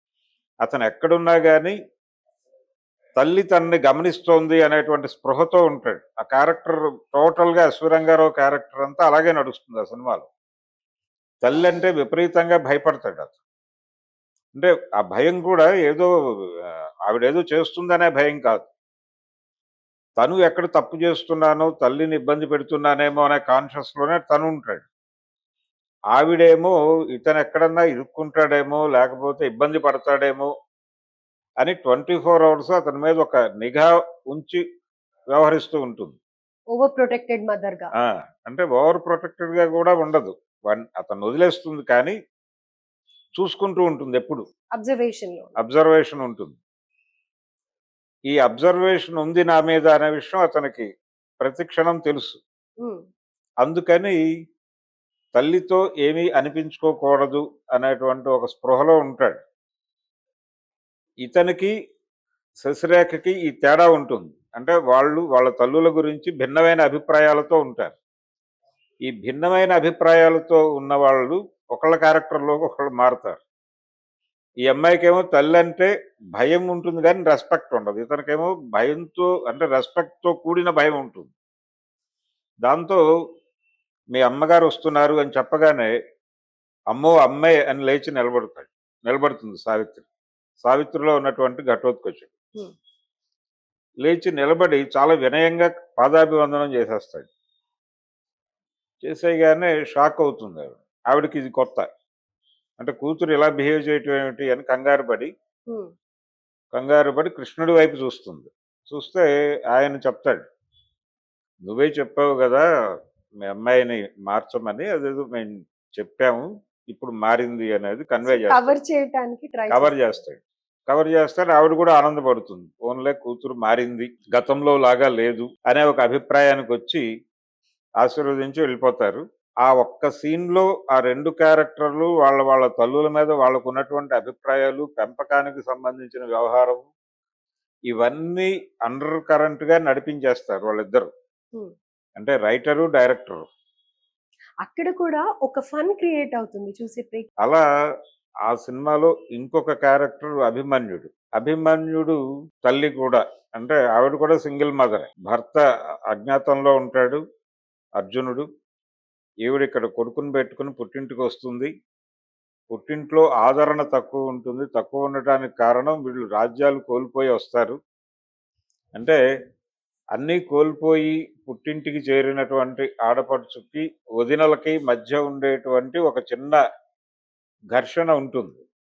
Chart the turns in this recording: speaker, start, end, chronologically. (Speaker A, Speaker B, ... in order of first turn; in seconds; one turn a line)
Speaker A: 0.6-1.7
Speaker A: 3.2-10.3
Speaker A: 11.4-13.3
Speaker A: 14.5-16.1
Speaker A: 17.1-18.7
Speaker A: 20.2-24.9
Speaker A: 26.1-30.5
Speaker A: 31.6-34.6
Speaker A: 35.3-36.2
Speaker B: 36.7-37.9
Speaker A: 38.0-42.1
Speaker A: 43.4-44.4
Speaker B: 44.7-45.5
Speaker A: 45.6-46.6
Speaker A: 48.3-50.9
Speaker A: 51.4-52.4
Speaker A: 53.6-54.2
Speaker A: 55.3-59.4
Speaker A: 61.2-61.7
Speaker A: 62.6-68.0
Speaker A: 69.0-73.4
Speaker A: 74.6-81.3
Speaker A: 82.6-83.0
Speaker A: 84.1-85.9
Speaker A: 86.9-90.0
Speaker A: 90.6-92.3
Speaker A: 94.0-97.3
Speaker A: 99.0-101.9
Speaker A: 102.8-105.3
Speaker A: 106.7-110.5
Speaker A: 111.6-112.6
Speaker A: 113.4-118.8
Speaker B: 118.3-120.0
Speaker A: 119.7-127.0
Speaker A: 128.0-136.9
Speaker A: 137.9-141.1
Speaker A: 142.2-143.4
Speaker B: 144.6-147.3
Speaker A: 148.5-157.2
Speaker A: 158.0-158.4
Speaker A: 159.4-161.7
Speaker A: 162.7-167.8
Speaker A: 170.1-176.6
Speaker A: 177.7-178.6